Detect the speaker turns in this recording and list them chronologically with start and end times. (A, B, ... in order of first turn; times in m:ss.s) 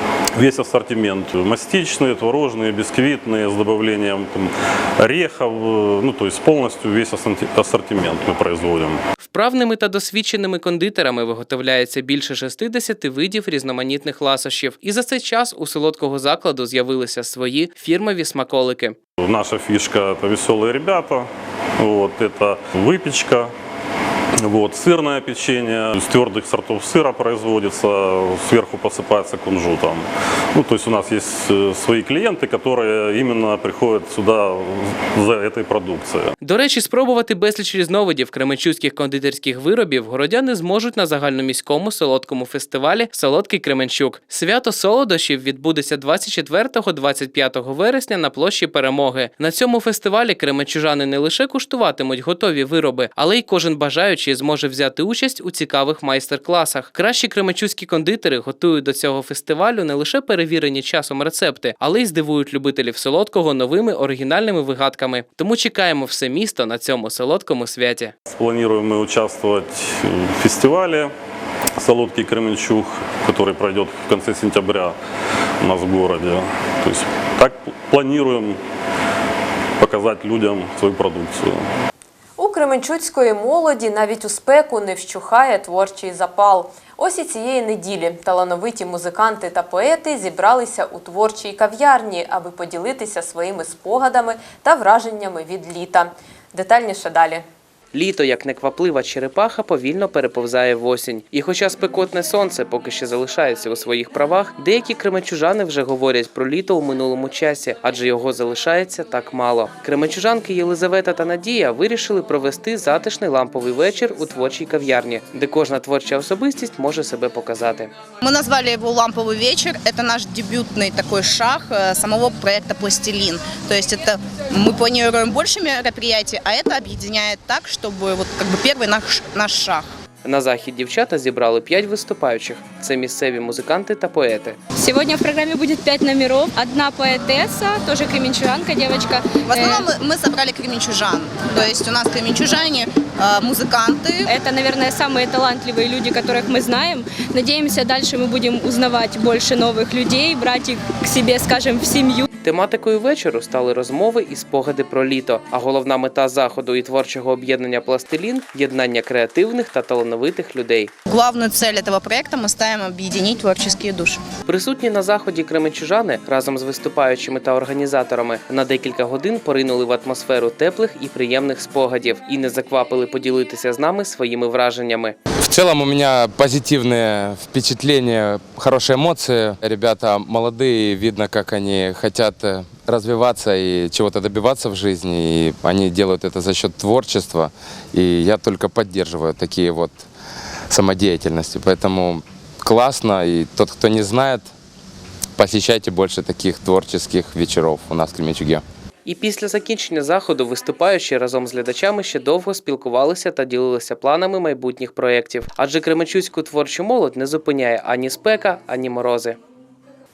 0:00.4-0:09.0 A
0:09.2-0:19.0 B
0:19.2-0:23.5 A
0:24.4-0:36.3 A
0:36.4-1:08.1 B
1:08.3-1:11.1 A
1:11.8-1:15.0 A
1:15.6-1:18.6 A
1:19.8-1:21.6 A
1:22.4-1:37.4 C
1:37.9-1:57.9 B
1:58.2-2:09.9 D
2:10.2-2:14.6 B
2:14.8-2:19.7 E
2:19.4-2:24.3 D
2:24.3-2:32.3 E
2:32.4-2:40.9 B
2:41.1-2:44.2 D
2:44.5-2:55.2 B
2:55.4-3:10.1 F
3:10.7-3:14.5 F
3:15.4-3:18.6 F
3:19.0-3:29.4 B